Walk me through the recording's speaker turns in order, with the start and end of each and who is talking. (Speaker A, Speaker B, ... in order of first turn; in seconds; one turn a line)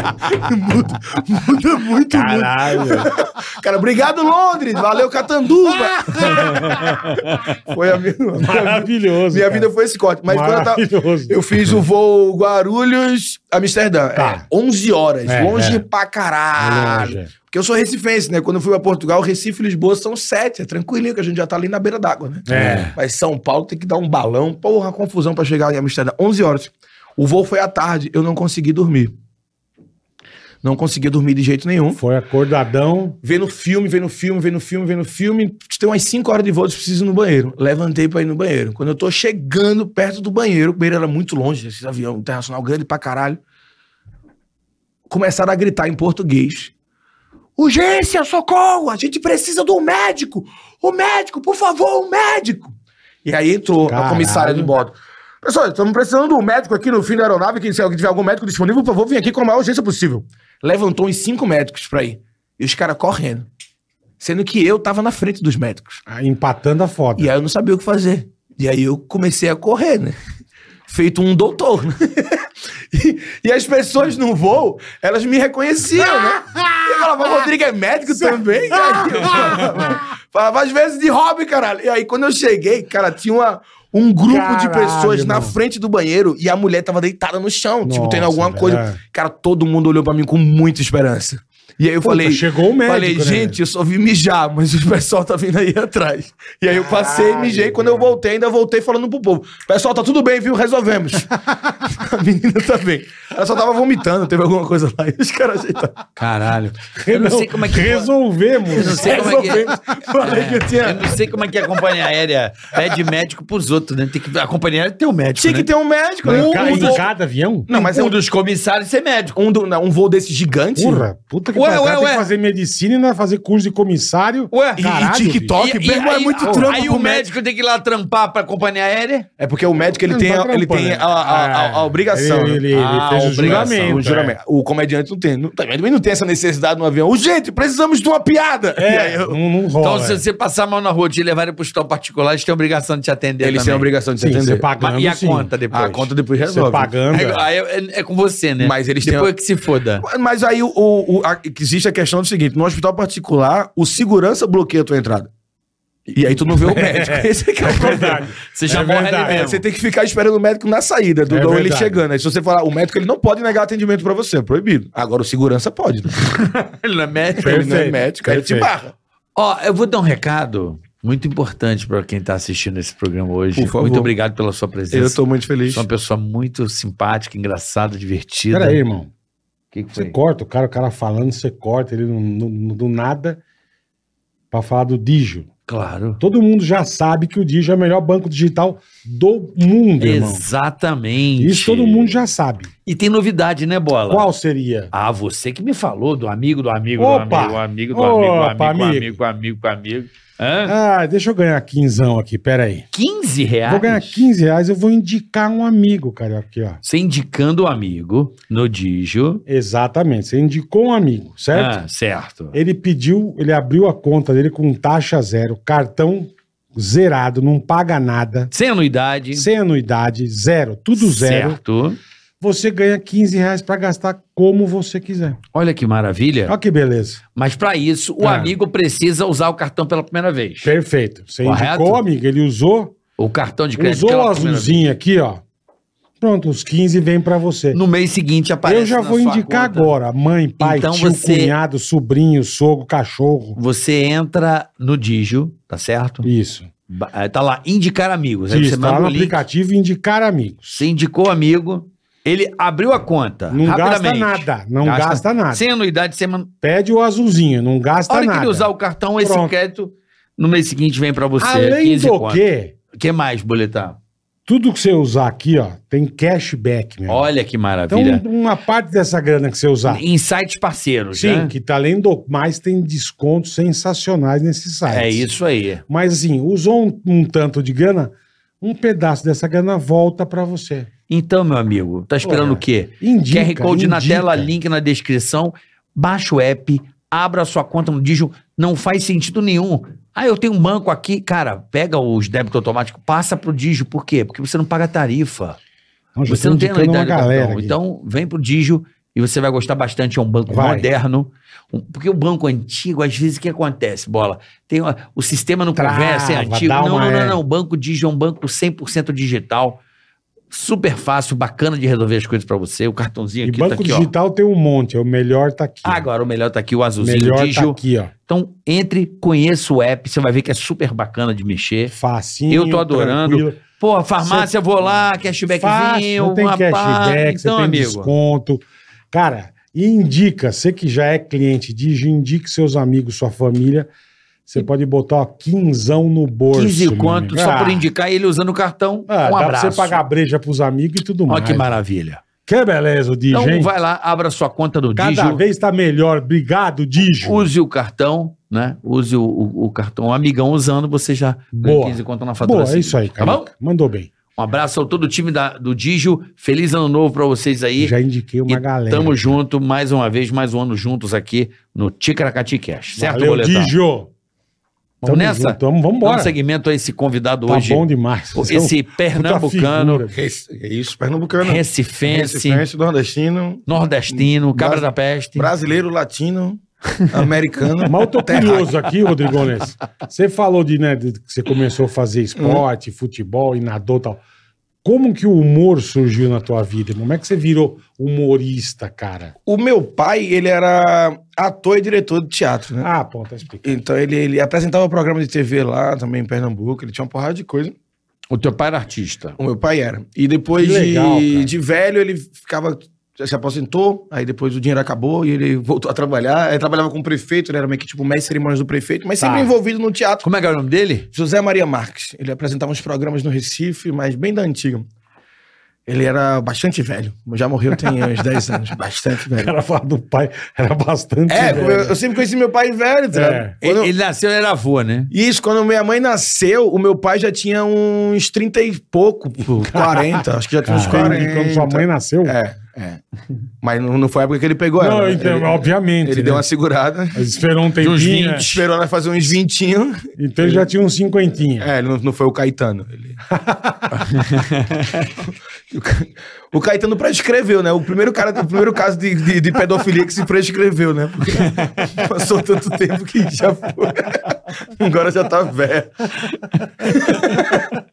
Speaker A: 0.2-7.0
Speaker B: 2.1-3.2
Speaker B: 5.7-7.1
Speaker C: 6.3-7.5
Speaker A: 7.7-29.1
Speaker B: 8.4-9.7
Speaker B: 10.3-11.8
Speaker B: 14.2-14.4
Speaker B: 15.2-15.8
Speaker B: 16.6-17.3
Speaker B: 22.5-22.9
Speaker C: 22.5-22.9
Speaker A: 30.6-32.0
Speaker B: 31.9-33.2
Speaker A: 33.2-43.4
Speaker A: 45.1-46.7
Speaker A: 47.6-63.5
Speaker B: 53.8-54.7
Speaker A: 64.2-66.0
Speaker B: 66.1-67.3
Speaker A: 67.2-70.2
Speaker A: 70.9-101.3
Speaker B: 76.0-77.5
Speaker B: 78.1-80.0
Speaker B: 84.2-85.6
Speaker B: 87.8-89.0
Speaker B: 92.0-93.6
Speaker B: 96.7-98.2
Speaker A: 101.8-106.0
Speaker C: 106.2-108.1
Speaker B: 107.0-109.7
Speaker C: 108.7-115.7
Speaker A: 108.8-111.2
Speaker A: 115.4-117.0
Speaker C: 116.2-117.0
Speaker B: 116.2-117.7
Speaker A: 117.7-118.2
Speaker C: 117.7-119.4
Speaker A: 119.3-121.0
Speaker B: 120.8-125.5
Speaker C: 121.5-122.3
Speaker C: 124.5-124.9
Speaker A: 124.8-127.3
Speaker C: 125.6-129.3
Speaker B: 126.4-126.8
Speaker A: 129.4-132.7
Speaker B: 130.0-134.4
Speaker C: 132.7-134.0
Speaker A: 133.4-139.4
Speaker B: 138.8-140.2
Speaker C: 139.8-143.9
Speaker A: 143.4-144.7
Speaker B: 144.2-145.8
Speaker C: 144.8-146.1
Speaker A: 145.7-146.9
Speaker B: 146.4-147.5
Speaker C: 147.1-150.0
Speaker A: 148.6-149.3
Speaker A: 150.0-155.3
Speaker A: 156.1-158.3
Speaker B: 156.4-159.4
Speaker C: 157.9-159.6
Speaker A: 159.2-166.2
Speaker B: 161.3-162.0
Speaker C: 166.6-167.8
Speaker A: 167.3-168.9
Speaker B: 167.4-168.7
Speaker C: 169.3-178.8
Speaker A: 173.5-174.1
Speaker A: 174.9-175.8
Speaker B: 178.5-179.1
Speaker C: 179.7-180.2
Speaker B: 179.9-183.4
Speaker B: 184.5-185.5
Speaker C: 185.7-186.2
Speaker B: 186.2-190.5
Speaker C: 190.0-192.2
Speaker B: 191.4-192.7
Speaker C: 192.8-194.3
Speaker B: 194.1-194.9
Speaker C: 194.9-200.7
Speaker B: 197.0-199.2
Speaker B: 200.6-202.9
Speaker C: 202.9-204.2
Speaker B: 203.7-206.8
Speaker C: 206.8-209.4
Speaker B: 209.4-211.8
Speaker C: 211.5-212.6
Speaker B: 212.5-218.5
Speaker C: 218.5-219.5
Speaker B: 219.3-221.6
Speaker C: 221.0-222.0
Speaker B: 222.4-225.4
Speaker C: 225.5-226.5
Speaker B: 226.5-227.2
Speaker C: 227.3-230.7
Speaker B: 228.2-228.5
Speaker B: 230.6-232.9
Speaker C: 231.4-232.0
Speaker C: 233.2-234.9
Speaker B: 233.8-235.4
Speaker B: 236.2-237.8
Speaker C: 237.7-239.9
Speaker B: 238.6-243.6
Speaker C: 240.6-241.5
Speaker C: 243.6-246.3
Speaker B: 246.2-246.7
Speaker C: 246.9-249.4
Speaker B: 248.5-250.8
Speaker C: 250.8-256.5
Speaker B: 253.5-255.6
Speaker B: 256.6-259.5
Speaker C: 258.1-262.4
Speaker B: 261.4-262.7
Speaker C: 262.9-264.0
Speaker B: 264.5-267.3
Speaker C: 267.1-268.2
Speaker B: 267.9-270.0
Speaker C: 269.8-271.5
Speaker B: 271.1-275.2
Speaker C: 274.9-275.8
Speaker B: 275.9-280.9
Speaker C: 281.1-295.6
Speaker B: 282.2-284.5
Speaker B: 296.1-297.8
Speaker C: 296.3-309.8
Speaker B: 300.5-300.9
Speaker B: 305.8-307.4
Speaker C: 310.5-314.1
Speaker B: 313.4-316.1
Speaker C: 315.8-321.9
Speaker B: 317.0-318.1
Speaker B: 321.9-323.6
Speaker C: 322.5-328.1
Speaker B: 324.2-324.5
Speaker B: 325.5-333.9
Speaker B: 334.5-337.9
Speaker C: 336.5-340.0
Speaker B: 339.1-341.8
Speaker C: 341.3-342.2
Speaker B: 342.4-343.7
Speaker C: 343.3-345.4
Speaker B: 345.0-347.5
Speaker C: 347.2-353.5
Speaker B: 351.5-354.1
Speaker C: 354.3-357.9
Speaker B: 357.8-359.4
Speaker C: 358.5-363.7
Speaker B: 363.0-364.1
Speaker C: 365.0-370.0
Speaker B: 365.0-366.3
Speaker B: 367.5-370.2
Speaker A: 370.1-378.7
Speaker C: 371.4-372.6
Speaker C: 373.7-375.5
Speaker B: 377.8-384.2
Speaker A: 382.4-382.6
Speaker B: 384.8-389.3
Speaker A: 389.4-392.9
Speaker B: 392.8-393.8
Speaker A: 393.6-397.7
Speaker C: 398.3-399.4
Speaker A: 399.4-410.3
Speaker B: 400.6-401.5
Speaker B: 409.2-409.5
Speaker C: 410.2-411.1
Speaker A: 411.1-414.9
Speaker A: 415.9-419.5
Speaker B: 419.3-421.9
Speaker A: 421.3-423.9
Speaker C: 421.4-421.7
Speaker B: 423.1-423.5
Speaker C: 423.6-425.1
Speaker A: 425.1-433.0
Speaker B: 429.7-432.4
Speaker C: 430.9-431.2
Speaker A: 433.6-437.2
Speaker B: 434.8-436.4
Speaker B: 437.1-438.5
Speaker C: 437.8-438.6
Speaker A: 438.4-440.7
Speaker B: 440.2-441.7
Speaker A: 441.6-443.2
Speaker B: 443.3-443.9
Speaker C: 444.1-444.8
Speaker A: 445.1-456.2
Speaker A: 456.8-457.7